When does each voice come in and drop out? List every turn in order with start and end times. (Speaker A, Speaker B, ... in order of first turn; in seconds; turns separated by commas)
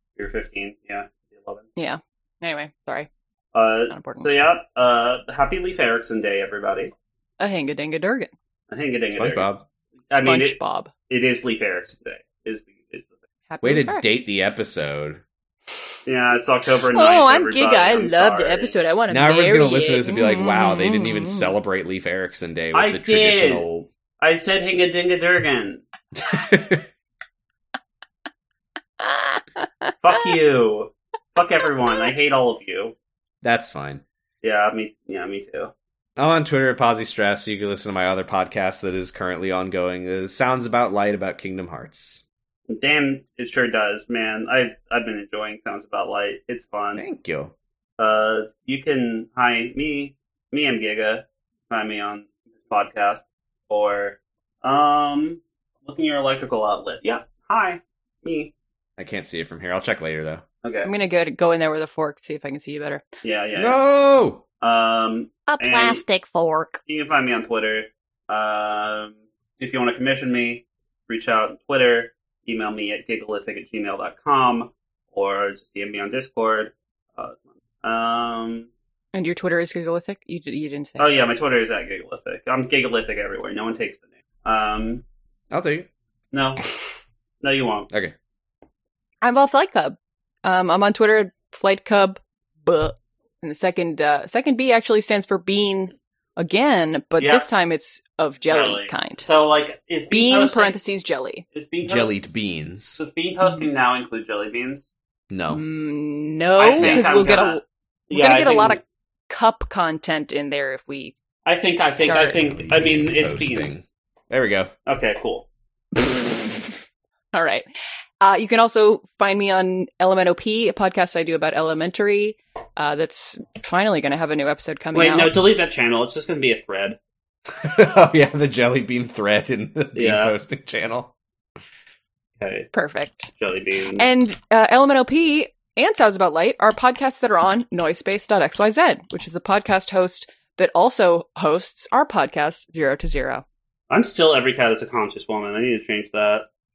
Speaker A: 0.2-1.7, Speaker B: 1.8-3.1, Speaker A: 3.5-6.9, Speaker B: 3.9-4.3, Speaker B: 7.4-8.3, Speaker A: 8.7-9.5, Speaker C: 9.1-9.6, Speaker A: 10.1-10.6, Speaker B: 10.1-10.9, Speaker A: 11.1-13.1, Speaker B: 13.5-14.0, Speaker C: 13.6-15.2, Speaker A: 16.1-18.7, Speaker B: 16.9-21.5, Speaker C: 19.1-23.9, Speaker A: 22.7-23.6, Speaker A: 24.2-25.8, Speaker C: 26.2-26.8, Speaker B: 29.0-29.9, Speaker A: 30.0-32.9, Speaker C: 33.4-34.0, Speaker A: 34.4-35.7, Speaker C: 36.2-42.2, Speaker A: 42.7-47.0, Speaker C: 47.0-47.5, Speaker A: 48.0-58.5, Speaker C: 59.0-60.4, Speaker A: 60.6-60.9, Speaker B: 60.8-63.0, Speaker A: 63.2-63.8, Speaker C: 63.5-64.4, Speaker A: 64.6-66.0, Speaker B: 65.5-66.8, Speaker A: 66.9-78.7, Speaker B: 79.1-81.1, Speaker A: 81.0-85.0, Speaker C: 85.5-85.9, Speaker A: 86.3-86.7, Speaker A: 87.4-87.9, Speaker B: 89.2-99.2, Speaker A: 97.2-97.5, Speaker A: 98.5-100.8, Speaker B: 100.1-101.4, Speaker A: 101.5-102.1, Speaker C: 101.8-103.0, Speaker A: 103.0-104.8, Speaker C: 105.3-105.6, Speaker B: 105.5-111.1, Speaker A: 106.6-108.8, Speaker C: 106.8-107.4, Speaker A: 111.4-113.7, Speaker B: 111.9-112.4, Speaker C: 112.2-114.7, Speaker A: 114.8-115.5, Speaker B: 117.3-117.7, Speaker B: 118.2-125.3, Speaker A: 124.9-127.0, Speaker C: 127.6-131.1, Speaker A: 129.9-130.3, Speaker A: 132.4-132.7, Speaker B: 132.7-133.3, Speaker A: 133.4-134.1, Speaker B: 134.0-143.4, Speaker A: 143.9-146.5